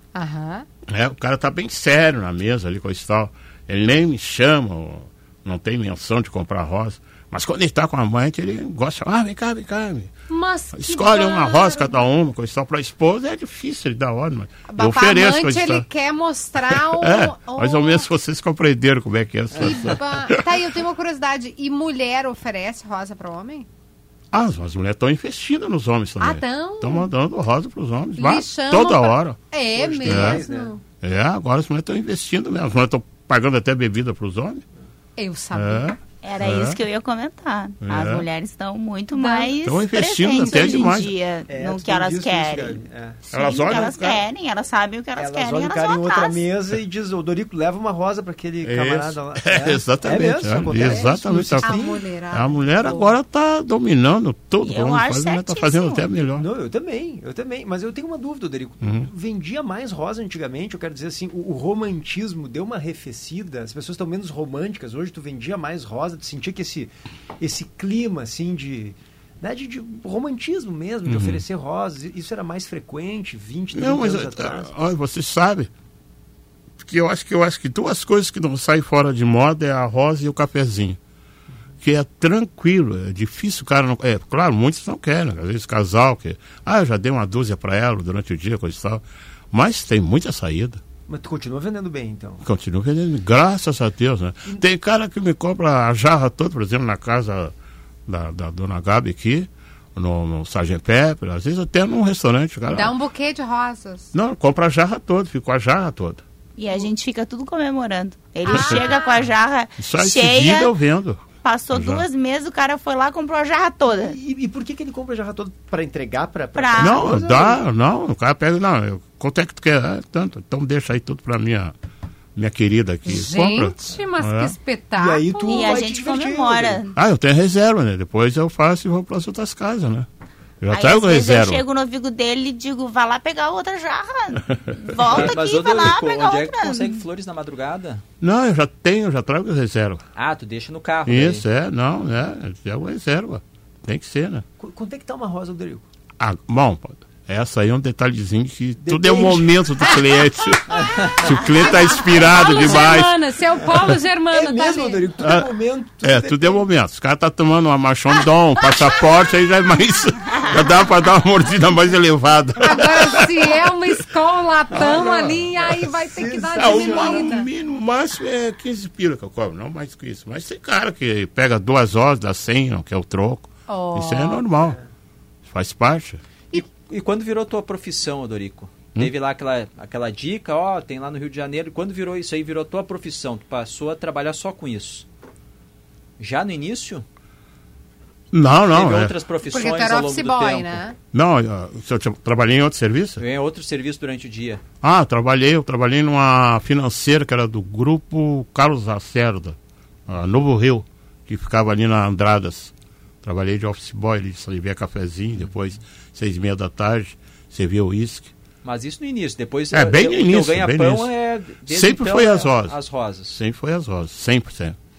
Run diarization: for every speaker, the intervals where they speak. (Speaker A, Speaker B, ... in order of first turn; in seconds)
Speaker A: 0.1-0.7, 10.3-11.9, 14.7-18.1, 19.6-23.7, 26.2-27.1, 28.2-30.8, 35.2-36.0, 39.1-39.6, 40.3-41.0, 50.7-53.1, 102.7-104.1, 108.5-109.2, 123.1-125.8, 150.4-155.1, 158.6-159.0, 162.6-167.5, 173.7-174.4, 189.5-191.0
Speaker B: 0.9-10.1, 10.7-15.9, 16.6-20.7, 24.3-29.4, 30.1-30.4, 31.0-34.6, 35.5-36.8, 37.8-38.3, 39.6-41.1, 43.3-44.2, 48.6-56.5, 58.8-59.1, 71.1-71.4, 73.7-75.7, 76.8-81.0, 81.8-90.8, 92.4-97.5, 98.1-103.0, 104.1-106.2, 108.5-108.9, 109.8-112.1, 116.8-121.7, 122.4-124.6, 127.0-130.1, 130.6-131.6, 138.2-140.0, 141.1-144.4, 146.2-153.2, 155.2-155.5, 156.0-164.0, 164.7-165.9, 166.6-174.8, 175.4-176.2, 188.3-189.1, 191.1-193.2, 194.8-202.7, 203.2-208.3, 209.7-211.1, 211.7-212.8, 213.3-214.8
Speaker C: 29.7-30.7, 41.5-43.2, 45.2-52.0, 56.4-74.7, 91.1-92.5, 113.9-117.6, 125.0-126.8, 144.6-145.9, 148.8-149.6, 154.3-156.7, 164.7-167.3
Speaker D: 36.2-46.4, 54.6-56.1, 106.6-110.7, 111.4-114.2, 116.6-117.2, 125.5-127.0, 130.7-137.0
Speaker E: 135.1-138.0, 140.2-141.4, 150.8-151.1, 176.5-185.1, 186.2-187.0, 188.7-190.8, 193.2-194.6, 208.6-213.4